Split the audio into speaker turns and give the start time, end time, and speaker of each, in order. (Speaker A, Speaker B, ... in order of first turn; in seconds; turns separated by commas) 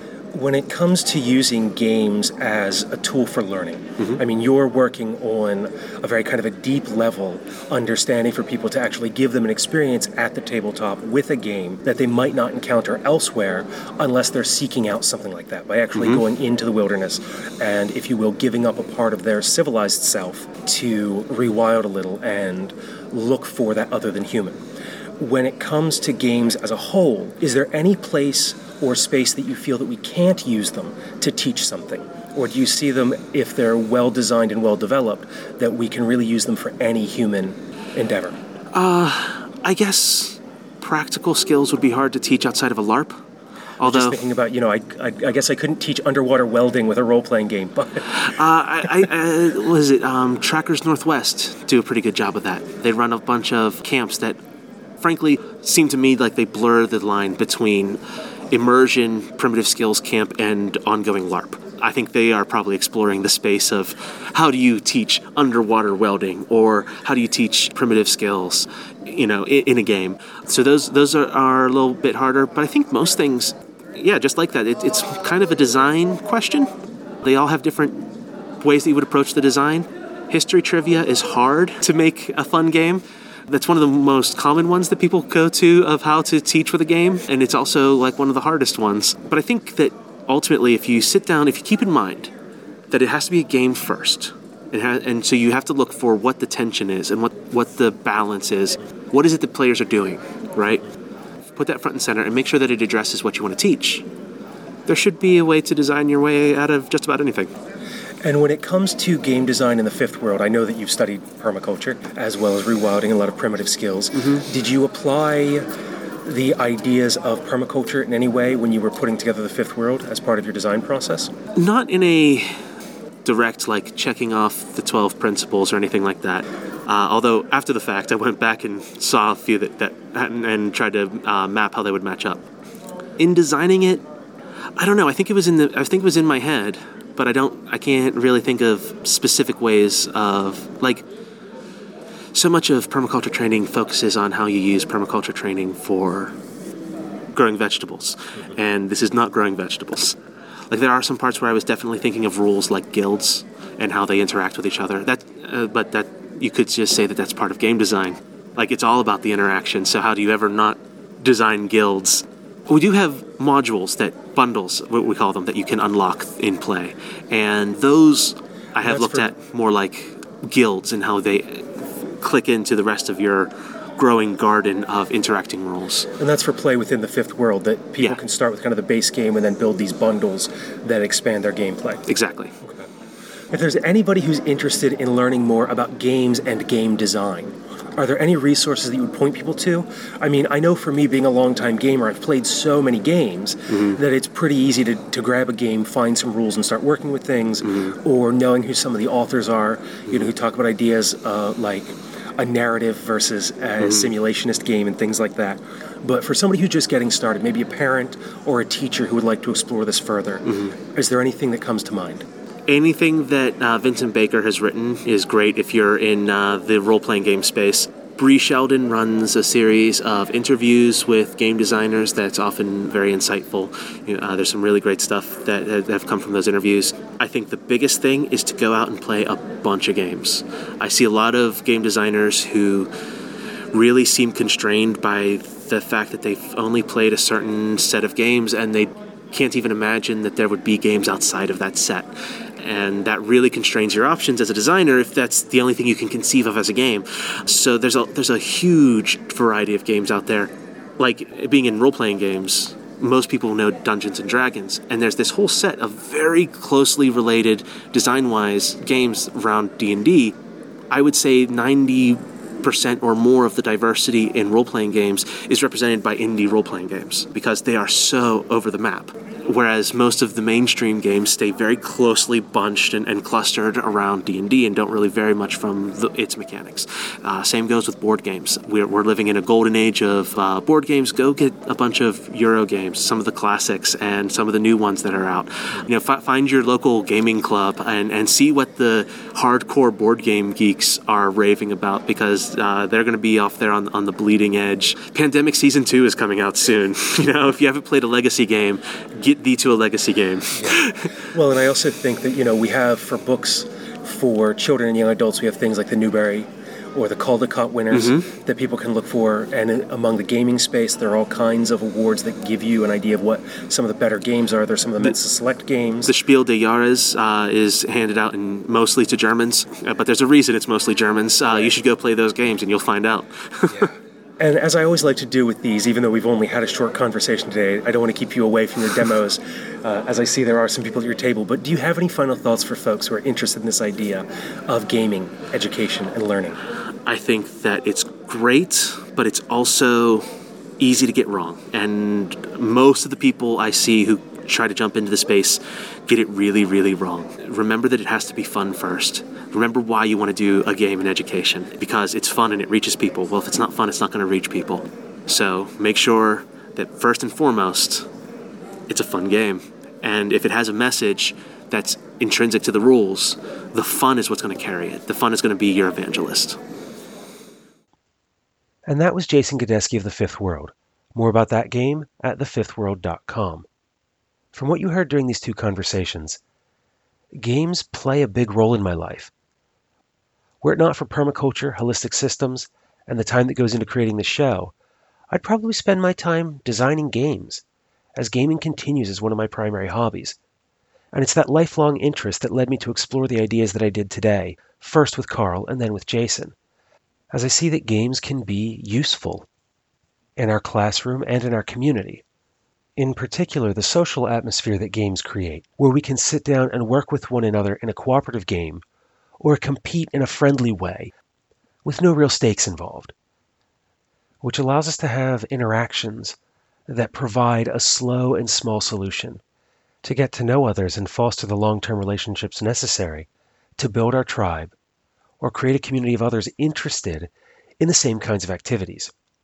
Speaker A: 0.3-24.6, Speaker B: 15.9-16.2, Speaker A: 25.2-38.4, Speaker B: 38.7-43.2, Speaker B: 43.8-44.2, Speaker A: 43.8-48.3, Speaker B: 48.1-54.4, Speaker B: 55.0-58.0, Speaker B: 58.5-76.7, Speaker B: 77.2-78.1, Speaker B: 78.6-92.3, Speaker B: 92.9-100.8, Speaker B: 101.6-104.0, Speaker B: 104.9-107.5, Speaker A: 108.2-115.7, Speaker A: 116.2-121.3, Speaker B: 121.6-122.5, Speaker B: 123.2-132.4, Speaker B: 133.2-134.0, Speaker B: 134.8-141.0, Speaker B: 142.3-146.3, Speaker B: 147.3-150.2, Speaker B: 150.7-176.1, Speaker A: 168.8-169.3, Speaker A: 176.2-182.1, Speaker B: 182.1-182.5, Speaker A: 183.5-212.2, Speaker B: 197.6-197.9, Speaker B: 203.8-204.1, Speaker B: 212.7-232.9, Speaker B: 233.7-242.1, Speaker B: 242.6-260.4, Speaker B: 260.9-301.1, Speaker A: 300.6-316.1, Speaker B: 307.9-308.3, Speaker B: 316.0-323.9, Speaker A: 323.7-336.6, Speaker B: 337.1-340.2, Speaker B: 340.8-358.1, Speaker B: 358.9-366.6, Speaker C: 368.9-373.7, Speaker C: 374.5-376.4, Speaker C: 377.4-379.3, Speaker C: 380.6-384.7, Speaker C: 385.3-387.6, Speaker C: 388.2-390.4, Speaker C: 391.1-396.5, Speaker C: 397.3-399.5, Speaker C: 400.4-402.2, Speaker C: 403.0-408.8, Speaker C: 409.4-411.1, Speaker C: 411.9-413.1, Speaker C: 414.4-416.4, Speaker C: 416.9-419.4, Speaker C: 420.0-424.7, Speaker C: 425.4-429.1